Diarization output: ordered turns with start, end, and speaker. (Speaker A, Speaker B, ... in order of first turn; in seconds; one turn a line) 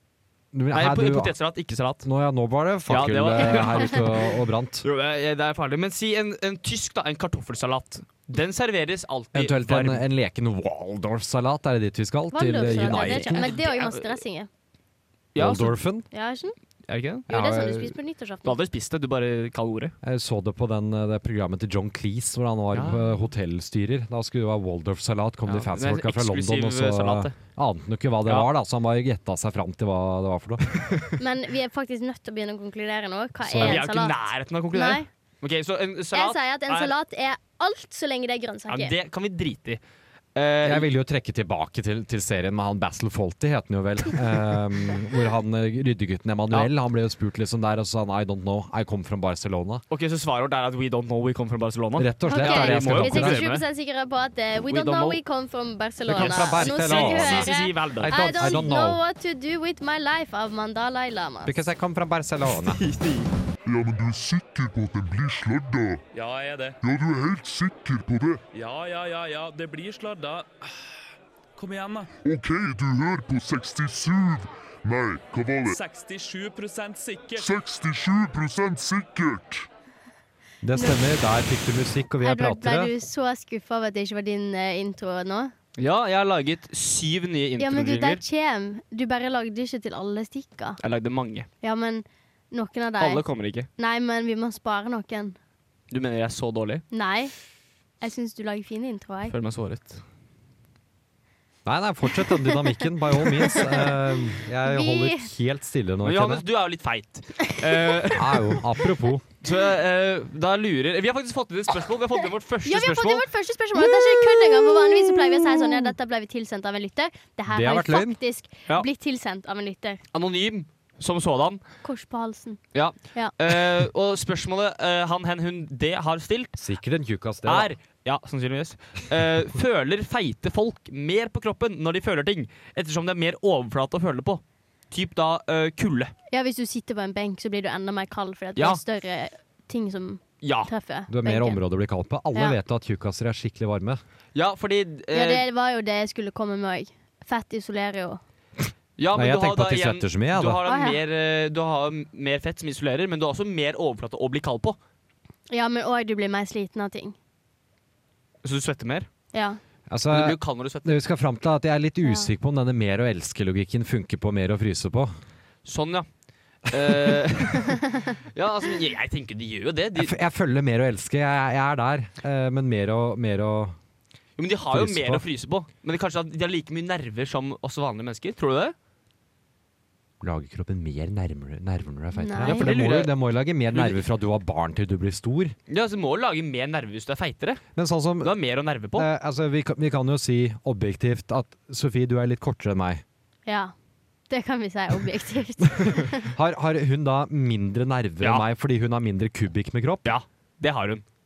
Speaker A: 0.5-1.3
Speaker B: 0.7-2.0
Speaker A: 2.0-4.8
Speaker B: 2.9-10.0
Speaker A: 9.3-13.6
Speaker C: 12.3-14.5
Speaker B: 12.6-14.2
Speaker B: 15.3-15.8
Speaker A: 15.3-16.1
Speaker C: 16.1-16.5
Speaker B: 16.9-17.3
Speaker A: 17.3-17.9
Speaker C: 17.3-18.6
Speaker B: 18.4-19.9
Speaker A: 20.0-30.8
Speaker B: 22.7-23.1
Speaker B: 25.4-27.4
Speaker B: 30.7-31.1
Speaker C: 31.2-34.1
Speaker A: 33.4-33.8
Speaker B: 33.6-36.9
Speaker C: 34.7-35.1
Speaker C: 36.1-38.9
Speaker B: 38.7-39.8
Speaker B: 40.3-40.9
Speaker A: 40.6-49.8
Speaker B: 49.9-53.6
Speaker A: 52.0-53.4
Speaker C: 52.3-61.5
Speaker B: 54.7-55.2
Speaker B: 56.1-58.7
Speaker A: 56.1-59.0
Speaker A: 61.4-62.9
Speaker B: 62.6-63.3
Speaker D: 63.6-66.0
Speaker E: 66.1-66.8
Speaker D: 66.8-68.4
Speaker E: 68.5-70.7
Speaker E: 71.6-72.1
Speaker D: 72.2-75.8
Speaker E: 75.7-77.5
Speaker D: 77.3-79.7
Speaker A: 80.6-82.9
Speaker C: 80.8-81.0
Speaker C: 82.2-85.5
Speaker B: 85.8-88.2
Speaker C: 87.6-90.8
Speaker B: 90.8-91.5
Speaker C: 91.6-93.2
Speaker B: 93.0-93.7
Speaker C: 93.8-95.4
Speaker B: 95.9-96.8
Speaker C: 96.9-97.3
Speaker C: 98.0-99.3
Speaker B: 99.3-100.0
Speaker A: 101.7-106.4
Speaker C: 102.2-102.6
Speaker C: 103.2-105.3
Speaker B: 106.0-108.6
Speaker A: 108.1-109.2
Speaker B: 109.4-113.2
Speaker C: 112.7-120.0
Speaker A: 117.5-118.2
Speaker B: 120.1-121.6
Speaker C: 121.8-122.6
Speaker B: 122.7-126.6
Speaker A: 126.6-127.7
Speaker B: 127.4-136.1
Speaker C: 136.3-141.6
Speaker B: 138.6-138.8
Speaker B: 140.4-140.7
Speaker A: 141.1-144.0
Speaker B: 144.3-145.4
Speaker C: 145.1-148.2
Speaker B: 149.0-154.8
Speaker A: 149.1-150.7
Speaker C: 150.7-151.0
Speaker C: 155.5-157.2
Speaker B: 158.4-159.1
Speaker C: 159.3-159.6
Speaker A: 159.9-165.1
Speaker B: 160.1-161.0
Speaker C: 162.0-162.3
Speaker B: 165.7-166.1
Speaker B: 166.7-170.1
Speaker A: 166.7-167.2
Speaker A: 169.9-173.8
Speaker B: 174.4-178.7
Speaker A: 174.7-175.2
Speaker A: 180.2-185.6
Speaker C: 182.2-182.7
Speaker B: 182.4-183.1
Speaker B: 183.7-184.0
Speaker B: 185.7-187.6
Speaker A: 187.8-188.3
Speaker B: 188.2-189.1
Speaker A: 188.9-193.0
Speaker C: 193.5-193.7
Speaker C: 194.3-196.3
Speaker A: 195.7-200.1
Speaker B: 200.1-201.0